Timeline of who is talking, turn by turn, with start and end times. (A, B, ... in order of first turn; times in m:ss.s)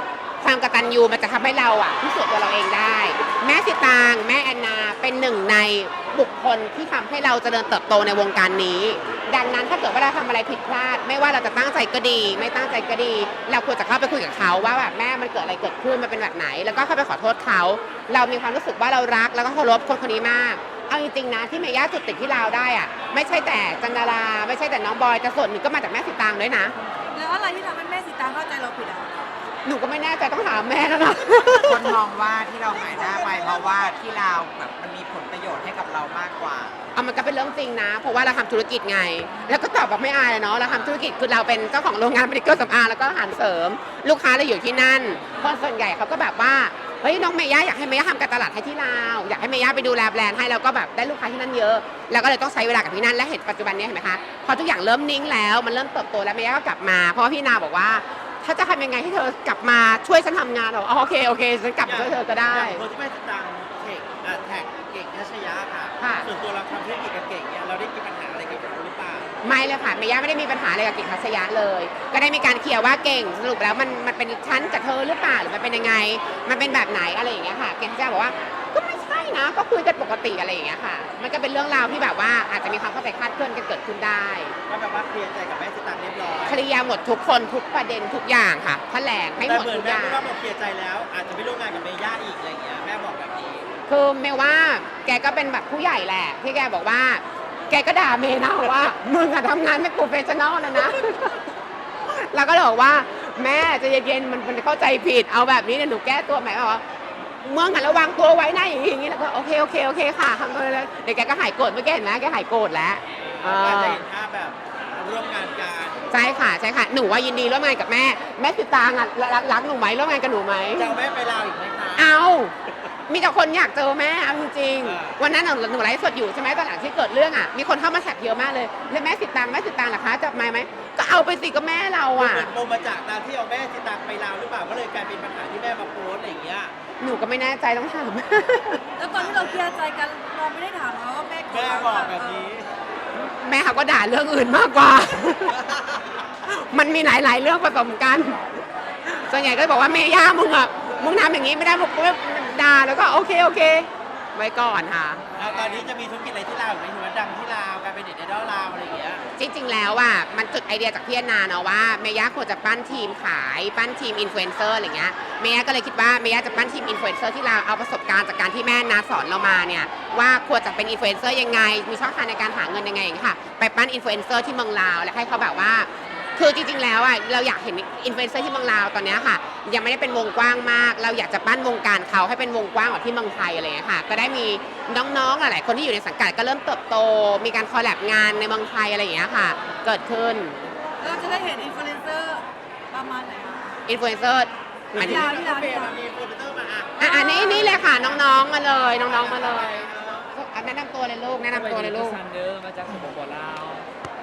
0:00.4-0:26.8 A
0:27.1-0:29.3 B
0:29.6-0:31.9 A
0:31.6-0:36.8 C
0:37.0-1:02.8 A
1:01.8-1:09.3 D
1:06.0-1:06.3 A
1:09.4-1:24.6 A
1:24.7-1:26.6 D
1:26.5-1:30.2 A
1:29.4-1:33.7 D
1:33.9-1:41.5 A
1:42.1-1:46.8 A
1:47.4-1:54.0 A
1:53.2-1:56.0 D
1:56.1-2:01.0 A
2:00.8-2:02.1 D
2:02.0-2:02.5 A
2:03.1-2:12.5 A
2:04.8-2:05.2 D
2:12.2-2:16.7 D
2:17.0-2:18.8 A
2:19.0-2:22.5 B
2:21.5-2:22.7 D
2:23.2-2:25.6 A
2:26.4-2:28.4 A
2:29.1-2:35.2 A
2:35.4-2:39.2 D
2:39.4-3:11.2 A
3:11.0-3:13.7 B
3:13.9-3:15.3 A
3:14.9-3:18.3 D
3:15.0-3:16.0 B
3:17.0-3:22.2 A
3:17.0-3:17.6 B
3:19.0-3:20.3 D
3:21.5-3:23.9 E